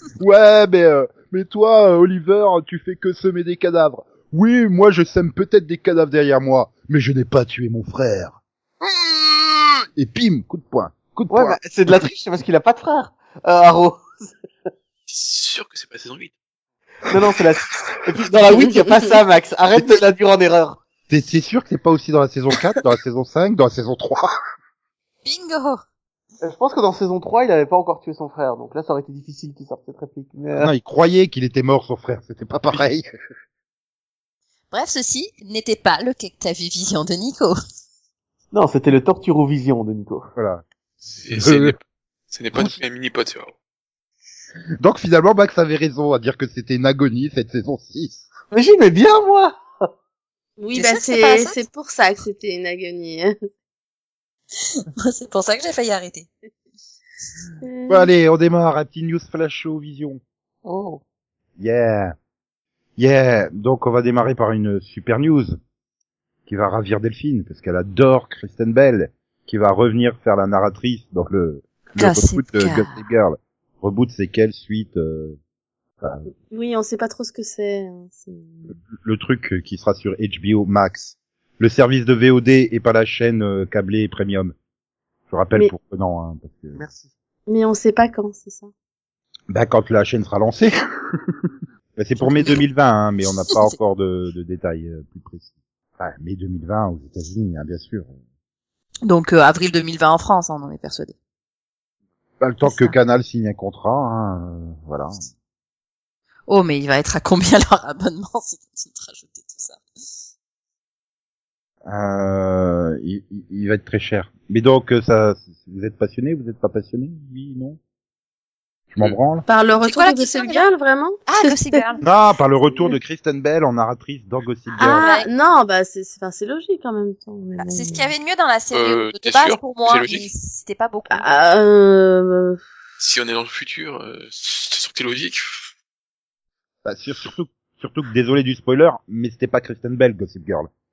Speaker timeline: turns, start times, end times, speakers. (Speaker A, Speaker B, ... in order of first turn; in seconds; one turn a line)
Speaker A: 0.2-11.9
Speaker B: 11.3-14.3
Speaker C: 15.1-16.3
Speaker B: 17.1-20.8
Speaker A: 21.1-24.3
Speaker D: 25.2-25.8
Speaker B: 26.4-30.7
Speaker A: 30.6-33.0
Speaker D: 34.7-37.6
Speaker B: 38.5-40.3
Speaker A: 40.4-40.6
Speaker C: 41.1-43.5
Speaker A: 41.3-41.8
Speaker A: 44.8-48.2
Speaker B: 48.5-49.6
Speaker E: 50.6-53.3
Speaker D: 50.7-51.6
Speaker D: 54.7-56.3
Speaker E: 57.6-58.1
Speaker A: 57.9-60.2
Speaker D: 60.7-61.0
Speaker A: 61.6-62.1
Speaker A: 63.0-65.6
Speaker A: 66.5-75.4
Speaker D: 72.0-73.0
Speaker A: 76.0-76.3
Speaker E: 76.5-78.7
Speaker A: 78.9-84.5
Speaker A: 85.3-86.8
Speaker B: 86.8-87.1
Speaker E: 87.5-88.7
Speaker A: 89.5-91.3
Speaker A: 92.0-98.1
Speaker D: 92.2-92.6
Speaker D: 93.5-93.8
Speaker D: 99.0-101.2
Speaker A: 102.4-105.1
Speaker D: 102.6-103.0
Speaker D: 106.5-109.8
Speaker A: 111.8-117.8
Speaker A: 118.9-119.5
Speaker E: 119.5-121.8
Speaker D: 119.8-120.7
Speaker D: 121.3-122.0
Speaker A: 122.0-125.0
Speaker E: 124.8-128.1
Speaker D: 125.0-125.3
Speaker D: 127.6-131.3
Speaker C: 128.7-130.3
Speaker E: 131.1-132.6
Speaker C: 133.0-135.7
Speaker A: 136.8-140.7